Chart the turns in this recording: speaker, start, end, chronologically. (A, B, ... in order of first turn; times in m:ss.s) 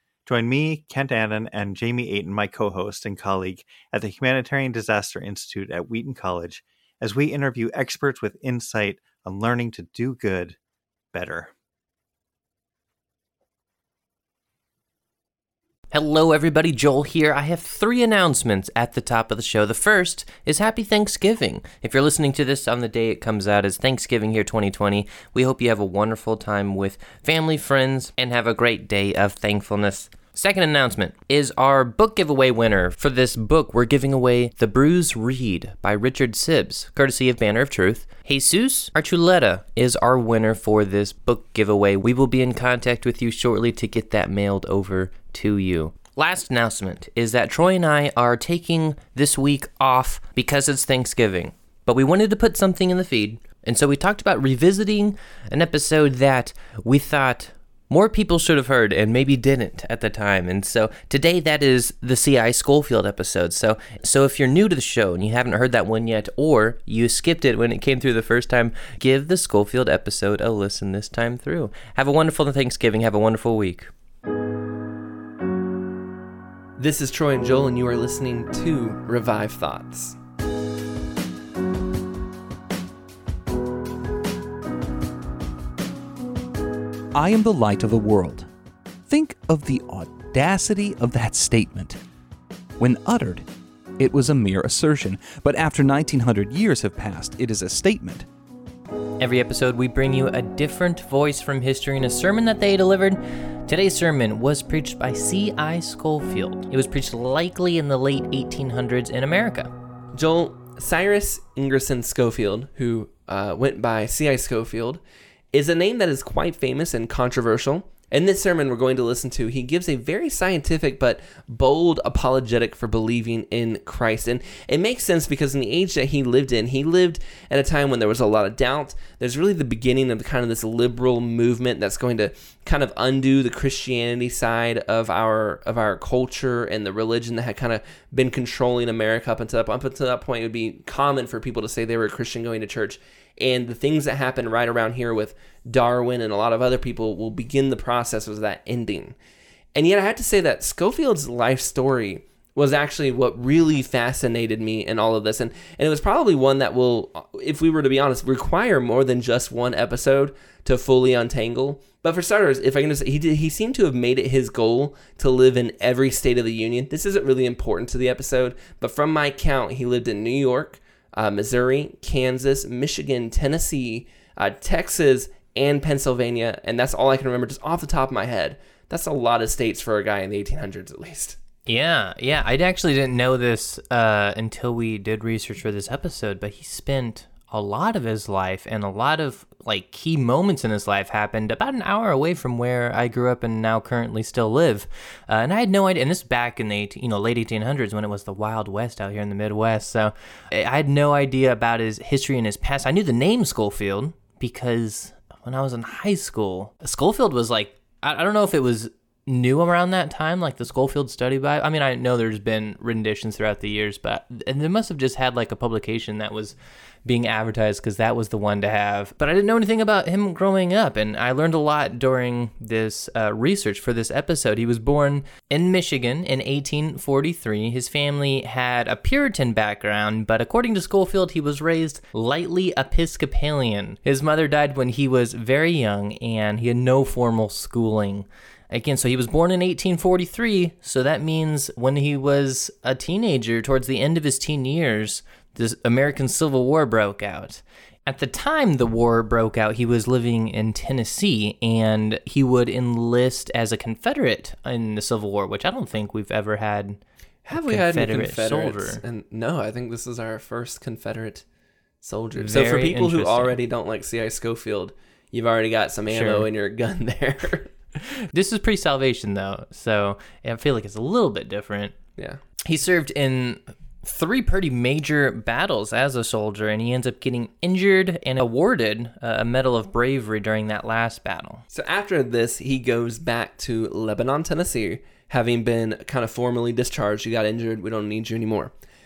0:00.3-0:10.6 A
0:11.1-0:11.5 A
0:15.9-1:13.9 B
1:16.8-1:20.2 C
1:27.1-1:28.5 D
1:29.1-1:32.0 D
1:32.8-1:33.5 D
1:34.0-1:38.3 D
1:39.2-1:49.7 B
1:50.2-2:29.2 C
2:29.8-3:01.4 C
3:01.7-4:17.0 B
4:17.5-4:21.4 C
4:17.5-4:19.0 B
4:22.0-4:27.7 C
4:22.4-4:23.6 B
4:26.1-4:26.5 B
4:28.1-4:32.0 B
4:32.6-4:41.6 B
4:41.7-4:48.7 C